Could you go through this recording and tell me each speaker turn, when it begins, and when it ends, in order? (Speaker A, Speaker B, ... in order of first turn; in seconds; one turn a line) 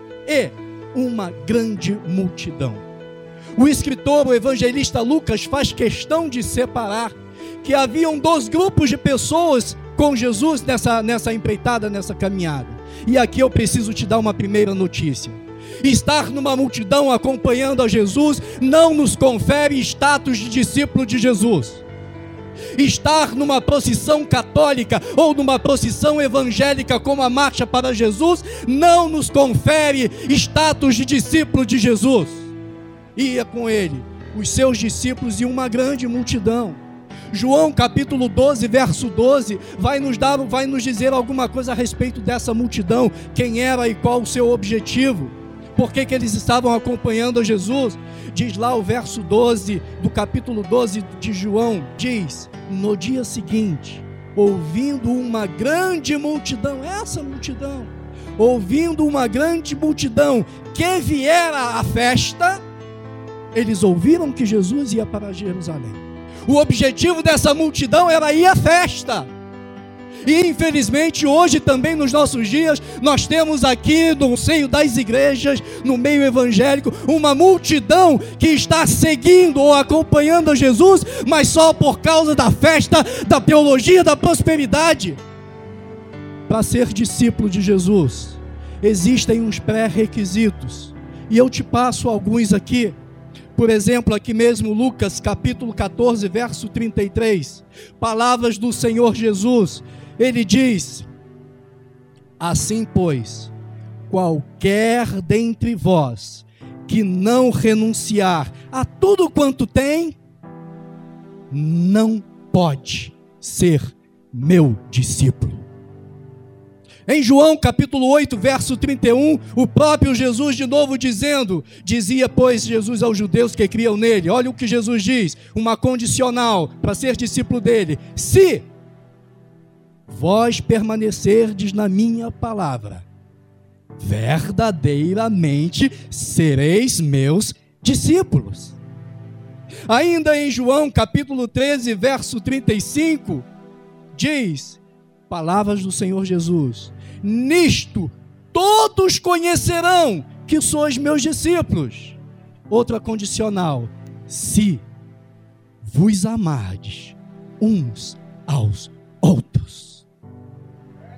Speaker A: 0.3-2.9
Speaker A: 3.6-21.8
Speaker A: 22.8-32.5
Speaker A: 33.2-36.8
Speaker A: 37.3-62.6
Speaker A: 63.5-69.3
Speaker A: 70.3-85.2
Speaker A: 86.5-93.0
Speaker A: 93.5-101.1
Speaker A: 102.4-103.5
Speaker A: 104.1-110.2
Speaker A: 111.5-115.7
Speaker A: 117.1-128.7
Speaker A: 130.1-133.1
Speaker A: 134.0-138.8
Speaker A: 139.9-143.5
Speaker A: 144.1-152.2
Speaker A: 152.7-154.8
Speaker A: 155.8-160.1